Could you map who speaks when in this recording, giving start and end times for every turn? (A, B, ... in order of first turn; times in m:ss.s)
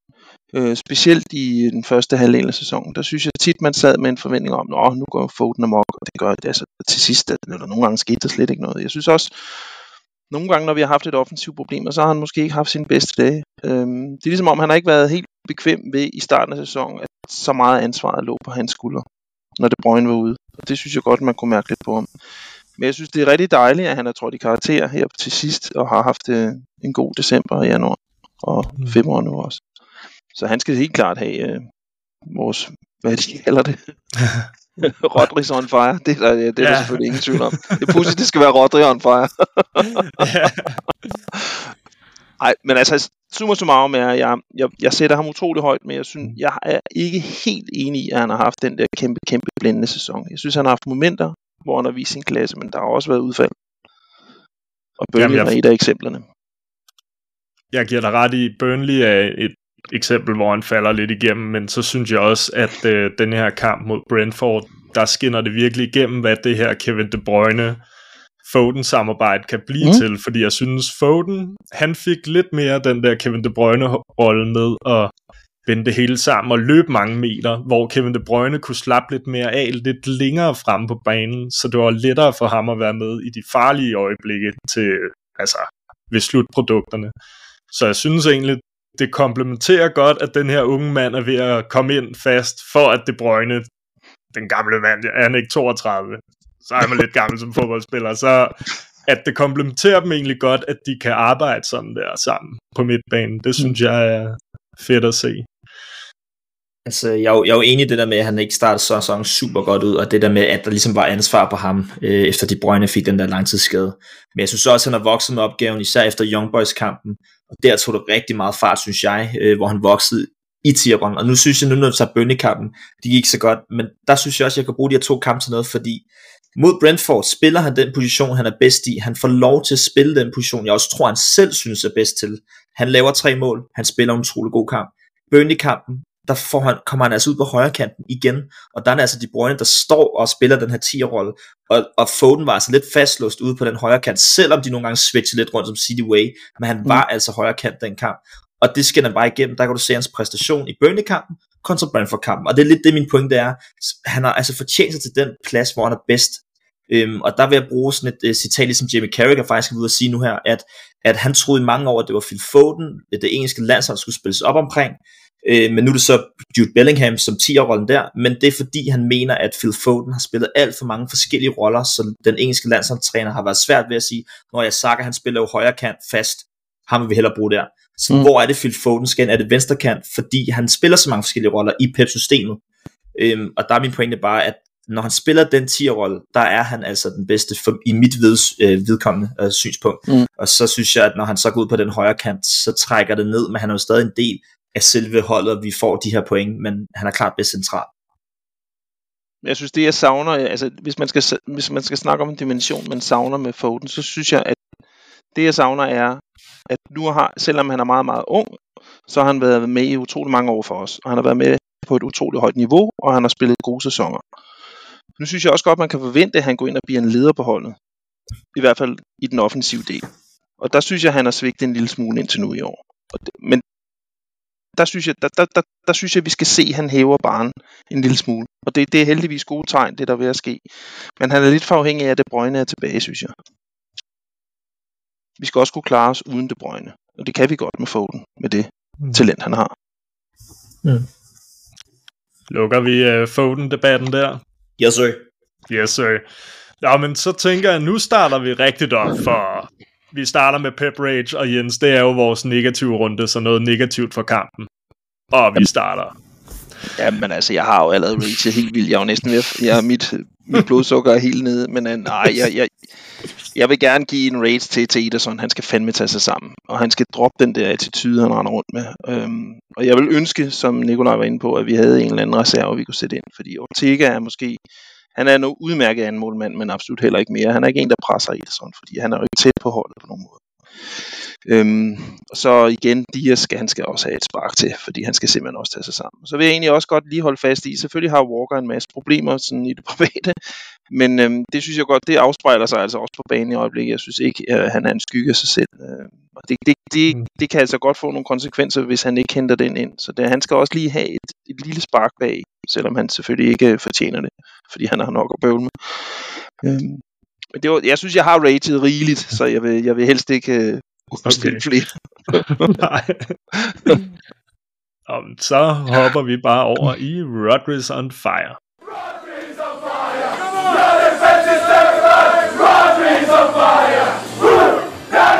0:00.5-0:09.6 A
0:10.3-0:19.0 A
0:19.6-0:22.1 A
0:22.8-0:29.6 A
0:30.3-0:31.6 A
0:32.3-0:33.8 A
0:34.8-0:40.3 A
0:36.6-0:38.1 B
0:40.2-0:40.8 B
0:42.4-0:53.5 A
0:55.0-0:56.2 A
0:55.2-0:55.6 B
0:57.7-1:07.8 B
1:08.4-1:15.1 B
1:15.6-1:27.1 B
1:27.7-1:33.7 B
1:34.3-1:45.5 B
1:46.8-3:02.6 C
3:03.2-3:17.9 C
3:19.4-3:24.6 A
3:25.3-3:28.6 A
3:29.1-3:34.2 A
3:35.2-3:37.8 A
3:38.5-3:40.1 A
3:40.6-3:43.6 A
3:44.8-3:50.6 A
3:51.2-3:53.3 A
3:55.4-3:59.7 A
4:02.5-4:04.4 B
4:04.8-4:05.3 C
4:05.7-4:06.2 B
4:06.8-4:14.7 B
4:15.3-4:16.1 B
4:17.0-4:22.7 A
4:23.5-4:34.6 A
4:35.2-4:40.4 A
4:41.0-4:50.4 A
4:50.9-5:07.0 A
5:07.5-5:12.7 A
5:11.3-5:11.6 B
5:12.6-5:13.3 B
5:13.6-5:14.0 A
5:15.1-5:18.6 B